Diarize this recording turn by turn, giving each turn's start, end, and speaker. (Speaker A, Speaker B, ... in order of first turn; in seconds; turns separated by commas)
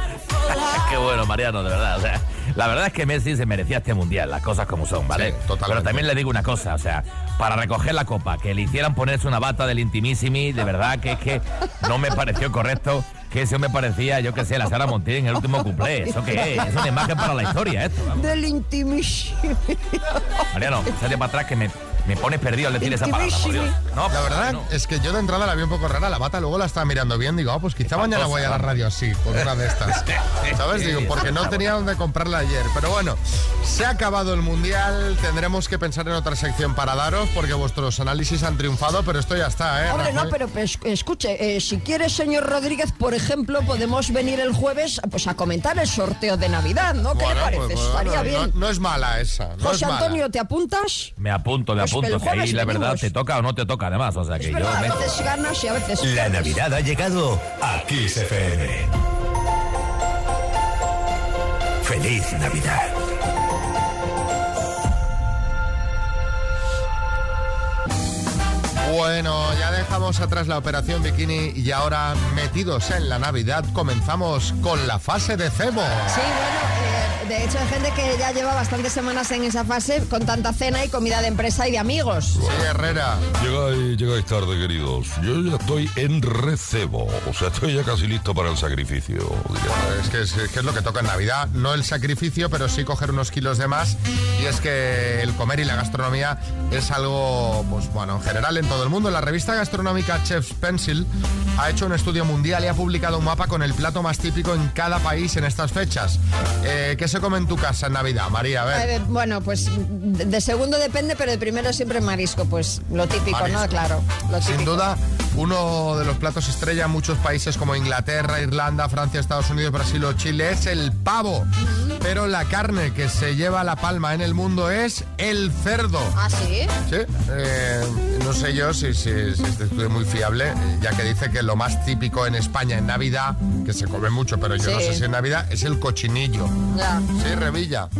Speaker A: 0.5-18.3, Speaker B: 5.1-6.1, Speaker C: 16.0-17.1, Speaker C: 18.1-20.3, Speaker A: 20.5-24.7, Speaker C: 22.8-23.7, Speaker B: 24.1-40.3, Speaker A: 27.9-28.8, Speaker A: 30.5-31.8, Speaker C: 39.9-48.5, Speaker B: 47.1-50.2, Speaker C: 49.6-51.1, Speaker A: 51.2-55.2, Speaker C: 51.8-53.1, Speaker C: 54.4-56.6, Speaker D: 56.0-58.9, Speaker D: 61.8-62.9, Speaker B: 68.8-76.2, Speaker C: 76.1-82.4, Speaker B: 82.4-83.2, Speaker E: 83.4-89.8, Speaker B: 89.8-108.9, Speaker C: 108.7-114.8, Speaker B: 113.3-113.8, Speaker B: 114.4-121.5, Speaker C: 121.6-122.0, Speaker B: 122.0-126.2, Speaker C: 126.1-126.7, Speaker B: 126.8-136.5, Speaker C: 134.6-135.0, Speaker C: 136.7-137.0, Speaker B: 137.1-137.9